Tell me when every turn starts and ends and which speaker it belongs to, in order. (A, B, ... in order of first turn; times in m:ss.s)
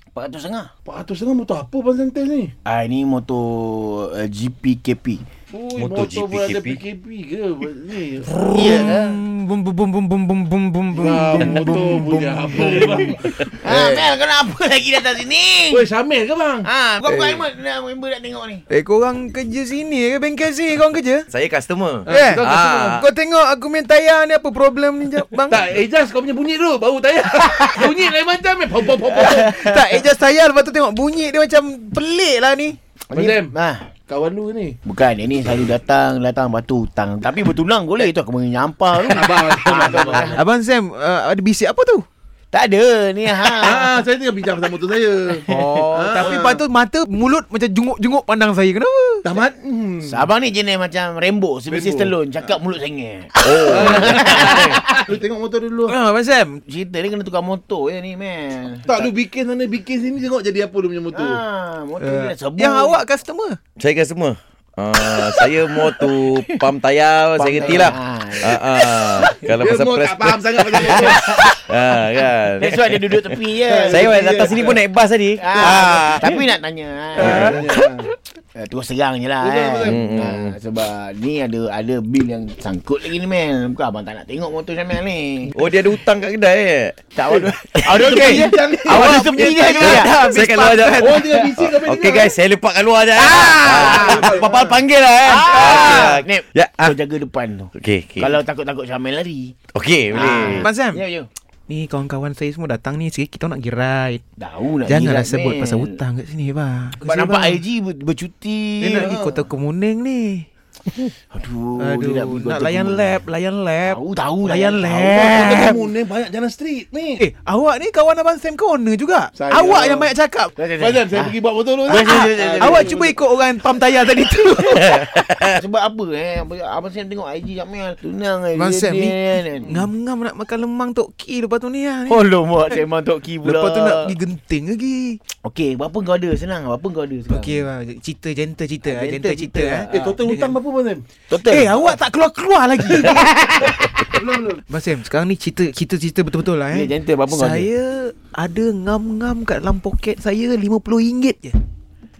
0:00.2-0:00.7 A
0:00.8-0:02.5 B
0:02.7-0:05.2 A
0:05.5-0:09.2 B
0:05.8-0:06.8 C
0:08.4-0:13.4 D
0:08.5-0:09.0 A
0:10.9-0:14.0 B
0:13.5-0:15.9 A
0:15.7-0:16.7 B
0:16.6-0:18.6 A
0:17.0-0:17.4 D
0:18.7-0:21.3 D
0:21.3-0:23.0 C
0:22.0-0:23.0 B
0:22.1-0:25.6 D
0:25.5-0:29.7 B
0:29.1-0:32.8 D
0:33.1-0:33.5 B
0:33.1-0:33.9 A
0:34.1-0:34.8 B
0:34.8-0:40.4 A
0:39.0-0:40.3 B
0:40.3-0:42.0 D
0:42.5-0:43.9 A
0:43.4-0:46.6 B
0:45.5-0:46.5 A
0:45.5-0:49.3 D
0:49.2-0:50.3 B
0:50.0-0:55.0 A
0:51.7-0:52.1 B
0:53.4-0:54.8 C
0:53.7-0:56.0 B
0:55.9-0:56.6 D
0:56.7-0:59.1 A
0:58.9-1:01.4 B
1:01.1-1:03.0 A
1:02.0-1:03.6 D
1:03.8-1:16.4 C
1:07.4-1:08.6 A
1:07.6-1:07.9 B
1:09.4-1:11.5 B
1:10.7-1:11.6 A
1:12.6-1:14.7 A
1:13.7-1:14.8 B
1:15.4-1:18.0 A
1:17.2-1:17.6 C
1:17.2-1:18.0 B
1:17.2-1:17.6 D
1:18.6-1:25.6 A
1:19.4-1:20.0 B
1:19.8-1:20.6 C
1:25.6-1:27.0 C
1:27.1-1:30.2 A
1:27.3-1:29.6 B
1:27.9-1:31.3 D
1:29.8-1:36.9 C
1:30.8-1:32.4 B
1:33.2-1:34.8 B
1:33.6-1:34.4 A
1:35.2-1:39.6 A
1:35.4-1:36.1 D
1:37.7-1:38.4 C
1:39.7-1:40.7 C
1:40.1-1:41.3 A
1:40.6-1:41.0 D
1:41.7-1:44.2 D
1:44.4-1:46.0 A
1:44.9-1:47.6 D
1:47.0-1:49.2 A
1:48.8-1:50.4 D
1:48.9-1:49.4 B
1:51.3-1:53.2 A
1:51.8-1:55.9 D
1:53.8-1:55.7 A
1:55.2-1:57.2 B
1:57.2-2:00.5 D
1:59.3-2:00.1 B
2:00.6-2:01.4 A
2:00.8-2:03.1 B
2:01.9-2:03.0 A
2:01.9-2:05.0 D
2:04.7-2:05.6 C
2:05.5-2:09.8 A
2:08.6-2:12.8 D
2:12.1-2:14.2 A
2:13.4-2:15.2 D
2:15.4-2:17.7 A
2:17.3-2:20.6 D
2:18.8-2:20.2 A
2:19.9-2:21.1 B
2:21.3-2:22.0 A
2:21.4-2:23.4 D
2:22.9-2:23.8 A
2:24.2-2:24.6 B
2:24.7-2:31.6 D
2:26.7-2:27.7 A